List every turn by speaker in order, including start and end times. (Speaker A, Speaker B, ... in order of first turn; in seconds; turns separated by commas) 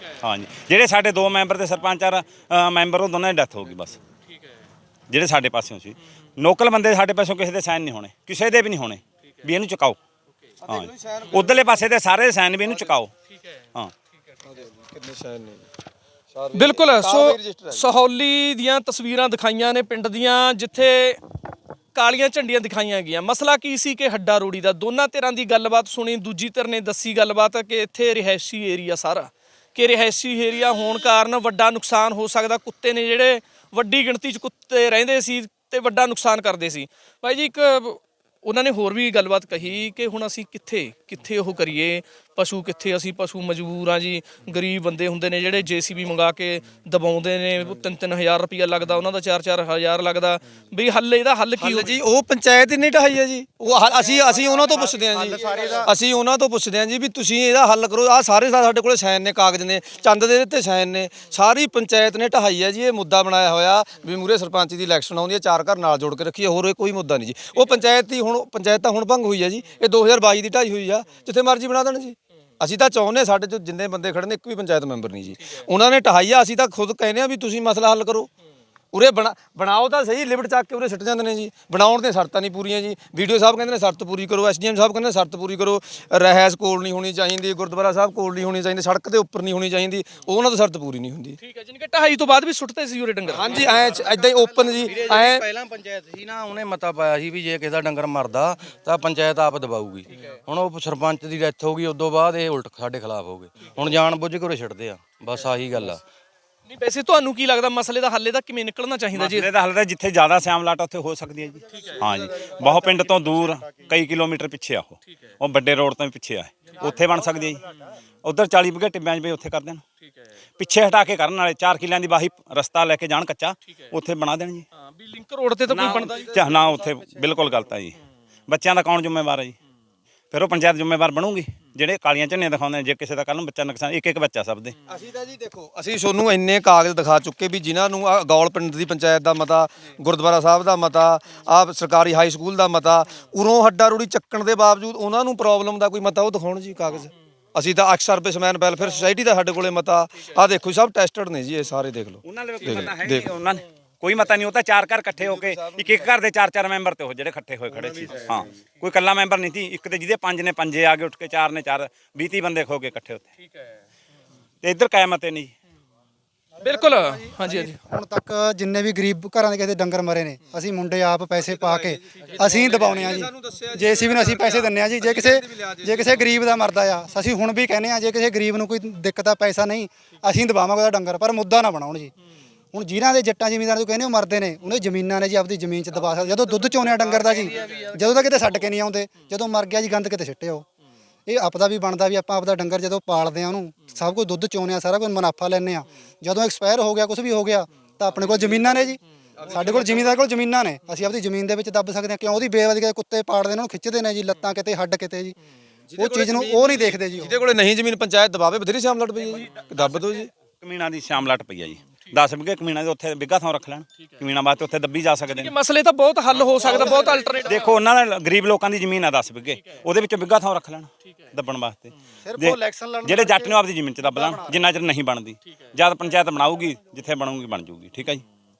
Speaker A: 0.2-4.0, Speaker A: 5.1-10.0, Speaker B: 10.7-11.5, Speaker A: 10.7-13.1, Speaker B: 14.5-15.7, Speaker B: 16.3-17.9, Speaker C: 16.5-21.2, Speaker C: 21.9-52.0, Speaker B: 51.6-78.3, Speaker D: 54.5-55.9, Speaker B: 78.9-91.4, Speaker C: 91.4-93.6, Speaker B: 93.3-95.5, Speaker E: 93.6-106.0, Speaker C: 100.1-100.4, Speaker C: 106.7-109.5, Speaker A: 109.1-117.6, Speaker A: 118.2-119.8, Speaker A: 120.6-124.7, Speaker C: 124.8-126.2, Speaker A: 125.7-128.0, Speaker B: 126.2-126.8, Speaker A: 128.5-129.6, Speaker A: 130.3-134.8, Speaker B: 134.9-153.3, Speaker A: 152.2-163.3, Speaker B: 155.2-156.1, Speaker B: 157.9-158.4, Speaker A: 164.6-165.5, Speaker D: 166.6-182.1, Speaker C: 166.6-167.8, Speaker B: 171.3-176.4, Speaker D: 182.7-190.7, Speaker E: 186.9-188.3, Speaker D: 191.3-205.4, Speaker B: 199.4-200.2, Speaker B: 205.9-210.3, Speaker D: 206.0-207.3, Speaker A: 210.6-215.5, Speaker C: 215.3-217.7, Speaker D: 216.6-217.4, Speaker A: 216.9-228.2, Speaker D: 222.2-224.6